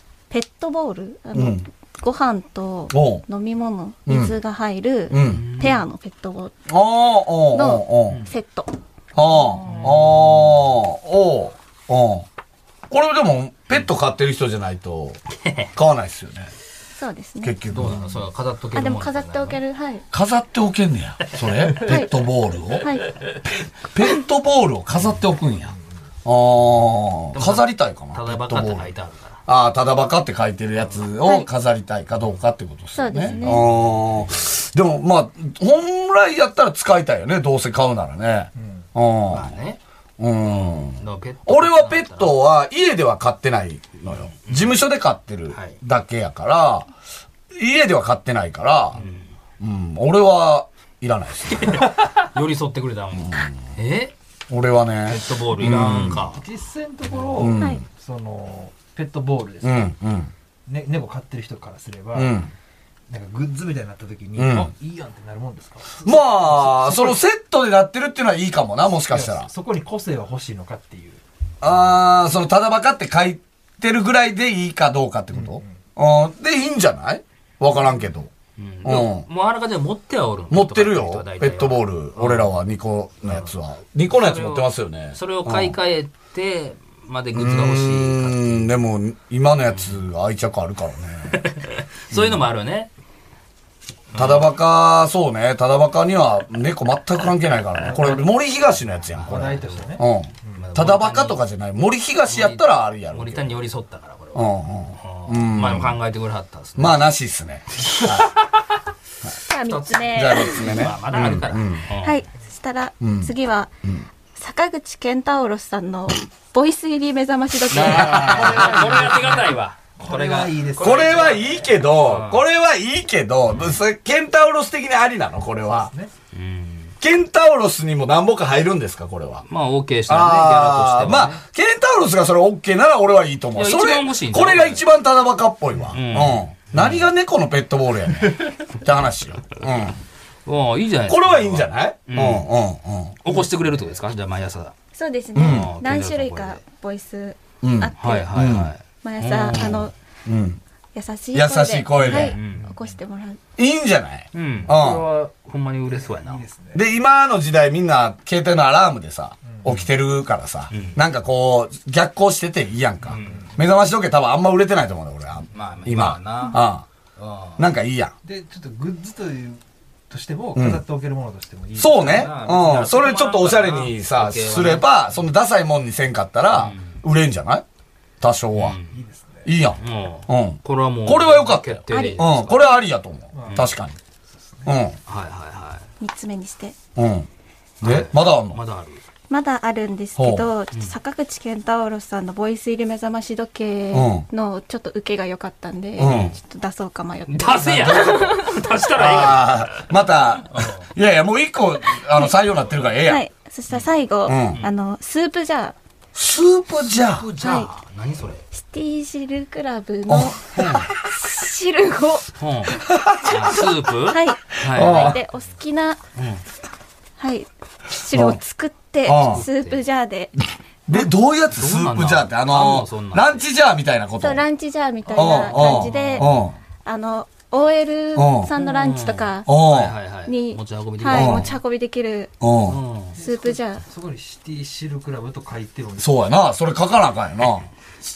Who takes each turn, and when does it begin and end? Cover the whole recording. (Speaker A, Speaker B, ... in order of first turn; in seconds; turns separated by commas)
Speaker A: 0.3-6.5, Speaker B: 1.3-1.6, Speaker B: 2.9-3.2, Speaker B: 4.1-4.3, Speaker B: 5.1-5.5, Speaker C: 5.2-5.8, Speaker B: 6.7-8.2, Speaker A: 7.5-8.7, Speaker B: 9.1-12.2, Speaker C: 9.6-10.5, Speaker D: 9.7-9.9, Speaker B: 12.9-15.2, Speaker C: 15.4-15.7, Speaker B: 15.7-16.5, Speaker A: 17.0-17.5, Speaker B: 17.4-18.1, Speaker C: 17.7-19.6, Speaker A: 18.7-20.0, Speaker B: 20.1-22.9, Speaker A: 21.8-22.1, Speaker A: 22.8-23.1, Speaker B: 23.9-28.9, Speaker C: 27.3-29.4, Speaker B: 29.5-39.5, Speaker A: 33.0-33.6, Speaker C: 33.1-34.1, Speaker D: 38.5-38.9, Speaker C: 39.3-39.8, Speaker B: 40.2-46.9, Speaker C: 40.4-42.4, Speaker C: 44.0-44.8, Speaker C: 45.5-45.8, Speaker B: 47.5-49.0, Speaker C: 48.9-49.2, Speaker B: 49.6-51.8, Speaker C: 51.5-54.1, Speaker B: 53.1-53.5, Speaker B: 54.5-56.2, Speaker C: 55.0-56.4, Speaker D: 56.3-59.9, Speaker C: 57.1-57.4, Speaker B: 57.4-57.8, Speaker B: 59.6-60.3, Speaker D: 60.7-62.4, Speaker B: 62.1-62.5, Speaker D: 63.1-67.2, Speaker B: 64.3-64.7, Speaker B: 66.0-69.5, Speaker D: 69.1-71.2, Speaker B: 71.6-78.3, Speaker D: 75.3-75.8, Speaker C: 78.6-82.5, Speaker B: 78.8-79.2, Speaker B: 80.5-85.8, Speaker C: 84.1-88.7, Speaker B: 87.3-91.4, Speaker C: 91.3-92.9, Speaker B: 92.1-92.5, Speaker C: 94.1-94.5, Speaker B: 94.2-103.6, Speaker D: 97.8-98.3, Speaker C: 99.1-100.0, Speaker D: 99.2-100.7, Speaker C: 100.5-101.4, Speaker C: 102.2-107.0, Speaker B: 104.3-106.0, Speaker B: 106.8-108.3, Speaker A: 109.5-110.9, Speaker C: 109.7-112.2, Speaker B: 110.1-111.9, Speaker A: 112.0-113.7, Speaker B: 113.0-113.3, Speaker A: 114.3-118.7, Speaker C: 117.7-122.4, Speaker B: 117.7-118.6, Speaker D: 118.0-121.7, Speaker B: 120.8-125.9, Speaker C: 123.5-123.8, Speaker D: 125.7-126.1, Speaker C: 126.3-126.9, Speaker B: 127.0-129.4, Speaker C: 129.5-131.4, Speaker B: 130.1-140.0, Speaker C: 133.5-134.8, Speaker C: 135.9-137.1, Speaker C: 140.4-142.5, Speaker B: 141.1-143.2, Speaker C: 143.2-144.7, Speaker D: 143.3-143.9, Speaker A: 144.9-148.4, Speaker B: 145.3-145.7, Speaker C: 145.3-146.6, Speaker B: 147.6-148.7, Speaker C: 148.0-149.8, Speaker A: 149.0-149.9, Speaker B: 150.2-150.6, Speaker A: 150.9-153.4, Speaker B: 151.3-152.3, Speaker C: 152.0-152.7, Speaker D: 152.4-152.8, Speaker B: 153.6-155.1, Speaker C: 154.3-156.4, Speaker D: 155.8-156.8, Speaker B: 156.7-166.8, Speaker D: 159.4-159.7, Speaker C: 160.7-161.0, Speaker C: 163.0-163.4, Speaker D: 163.1-163.6, Speaker C: 165.5-166.6, Speaker C: 167.2-167.6, Speaker B: 167.6-168.1, Speaker D: 168.2-172.3, Speaker B: 170.5-170.8, Speaker B: 171.8-177.6, Speaker C: 171.9-174.9, Speaker C: 176.5-176.9, Speaker B: 178.2-178.8, Speaker C: 178.5-179.0, Speaker D: 178.8-179.5, Speaker B: 179.4-183.9, Speaker C: 179.8-182.8, Speaker A: 181.9-182.2, Speaker D: 183.3-183.7, Speaker C: 183.4-183.7, Speaker D: 184.3-184.8, Speaker B: 184.6-185.0, Speaker C: 185.1-185.8, Speaker A: 186.0-186.8, Speaker B: 186.9-187.3, Speaker B: 187.8-188.6, Speaker C: 187.8-189.0, Speaker A: 189.3-198.7, Speaker B: 190.2-190.5, Speaker B: 193.9-194.2, Speaker B: 196.0-196.3, Speaker C: 196.0-196.4, Speaker C: 197.3-199.9, Speaker B: 197.6-198.3, Speaker B: 198.9-203.2, Speaker C: 200.5-200.9, Speaker A: 203.0-205.8, Speaker B: 204.2-204.6, Speaker B: 206.1-207.3, Speaker C: 207.0-208.4, Speaker A: 207.4-207.7, Speaker A: 208.5-212.3, Speaker B: 210.1-210.9, Speaker C: 212.4-215.2, Speaker B: 212.9-213.6, Speaker A: 214.1-216.0, Speaker B: 214.6-215.2, Speaker C: 216.2-216.4, Speaker A: 217.2-220.3, Speaker B: 218.1-218.4, Speaker B: 219.0-219.4, Speaker C: 219.2-219.8, Speaker B: 220.9-224.4, Speaker C: 220.9-223.4, Speaker A: 224.2-226.3, Speaker C: 225.1-226.4, Speaker B: 225.1-226.5, Speaker A: 226.8-229.5, Speaker B: 228.1-228.5, Speaker C: 228.6-231.5, Speaker B: 229.5-229.9, Speaker A: 230.2-232.3, Speaker B: 231.1-231.5, Speaker B: 232.4-232.8, Speaker C: 232.6-233.2, Speaker D: 233.1-236.2, Speaker A: 233.2-233.8, Speaker B: 236.0-237.7